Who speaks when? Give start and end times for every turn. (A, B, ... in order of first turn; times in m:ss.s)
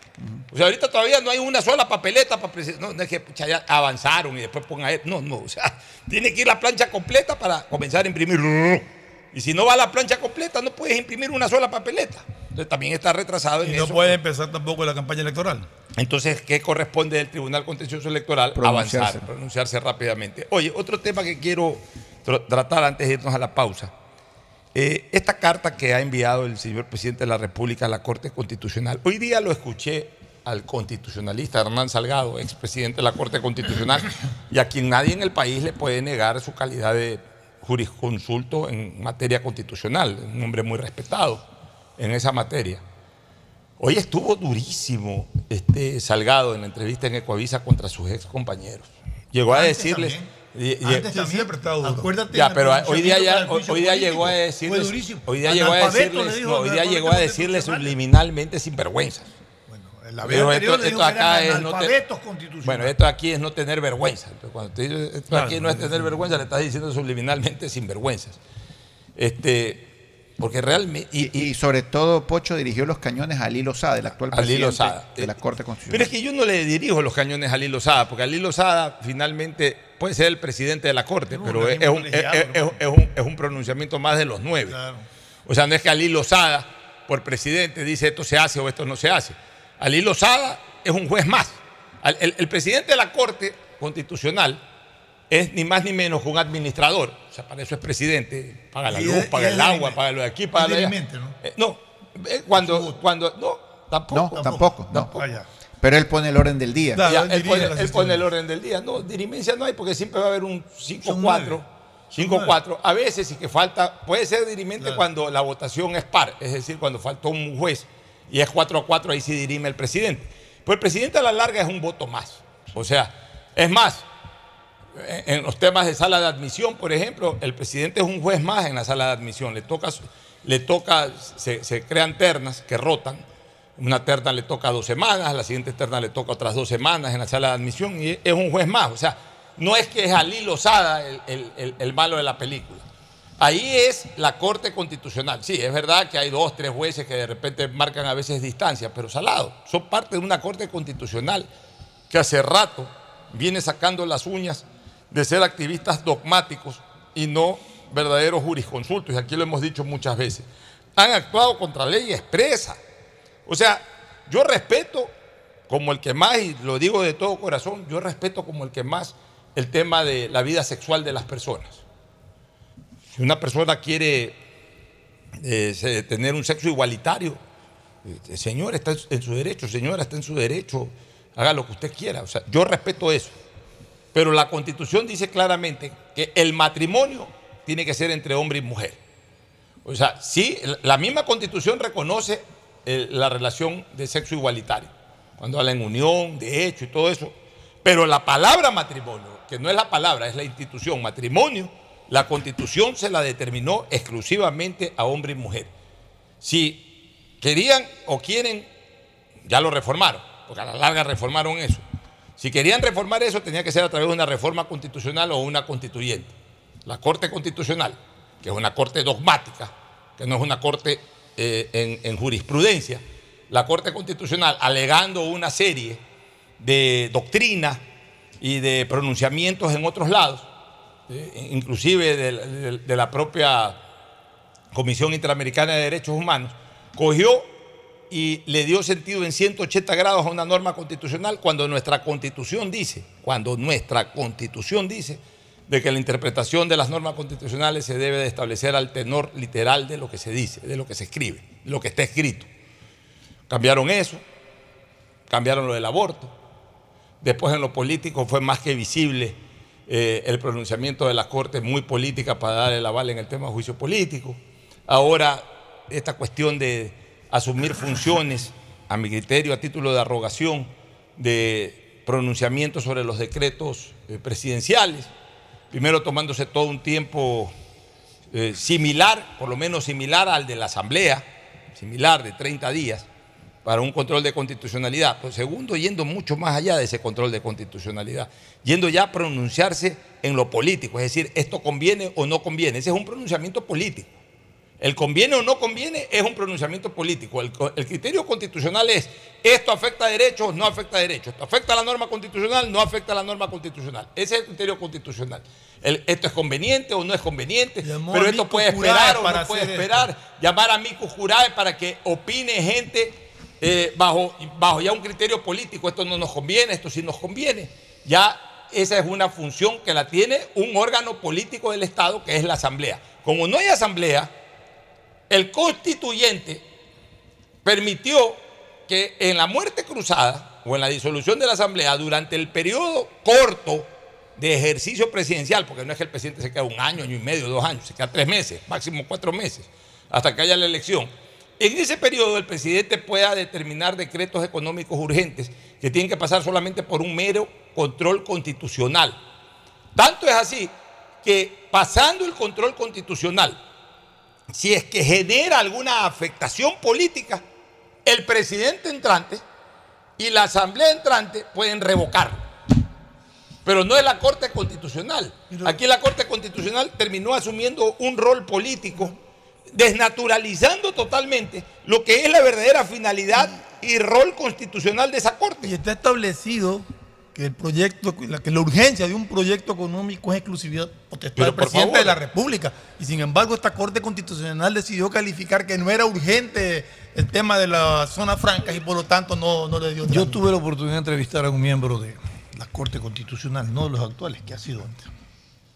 0:00.2-0:00.4 A
0:00.5-0:14.2 B
0:13.6-0:15.7 C
0:16.0-0:23.9 B
0:18.6-0:19.2 A
0:24.8-0:41.4 B
0:42.0-0:42.8 B
0:43.8-0:51.1 B
0:49.5-0:50.3 D
0:50.8-0:58.0 D
0:51.0-0:52.1 C
0:52.3-0:59.3 B
0:59.7-1:03.0 D
1:00.2-1:01.9 B
1:02.6-1:08.4 B
1:05.3-1:06.1 C
1:09.2-1:09.8 B
1:10.4-1:11.5 B
1:11.2-1:16.1 A
1:14.3-1:15.3 B
1:15.9-1:24.8 B
1:21.3-1:22.8 D
1:24.7-1:25.1 D
1:25.5-1:34.6 B
1:35.3-1:44.4 B
1:38.9-1:40.0 D
1:40.6-1:41.4 D
1:42.5-1:43.0 D
1:44.1-1:45.2 A
1:44.2-1:45.5 D
1:45.8-1:47.1 A
1:47.0-1:48.2 C
1:47.0-2:04.0 B
1:51.0-1:52.6 D
1:54.8-1:55.0 D
2:05.0-2:13.2 B
2:13.8-2:22.8 B
2:23.4-2:31.5 B
2:32.1-2:42.8 B
2:43.5-2:45.1 B
2:45.7-2:51.8 B
2:53.1-2:54.4 B
2:55.4-2:57.4 B
2:58.0-3:03.4 B
3:04.1-3:09.0 B
3:09.8-3:25.7 B
3:26.4-3:26.9 B
3:27.4-3:28.7 B
3:29.5-3:31.8 B
3:32.4-3:36.3 B
3:36.9-3:46.0 B
3:46.6-3:47.8 B
3:48.4-3:50.5 B
3:51.1-3:53.8 B
3:54.7-3:57.5 B
3:58.1-4:12.5 B
4:13.5-4:14.2 B
4:15.3-4:16.3 B
4:17.2-4:35.1 B
4:35.7-4:37.5 B
4:38.3-4:43.1 B
4:43.6-4:54.1 B
4:54.8-5:24.3 B
5:07.8-5:10.1 C
5:25.3-5:26.6 B
5:27.6-5:49.2 B
5:50.0-5:50.7 B
5:51.2-5:53.6 B
5:54.5-5:57.4 B
5:58.1-5:59.4 B
6:00.2-6:02.4 B
6:03.6-6:09.1 B
6:05.5-6:05.8 C
6:09.7-6:15.7 B
6:15.6-6:30.4 C
6:21.4-6:22.2 B
6:30.1-6:35.1 D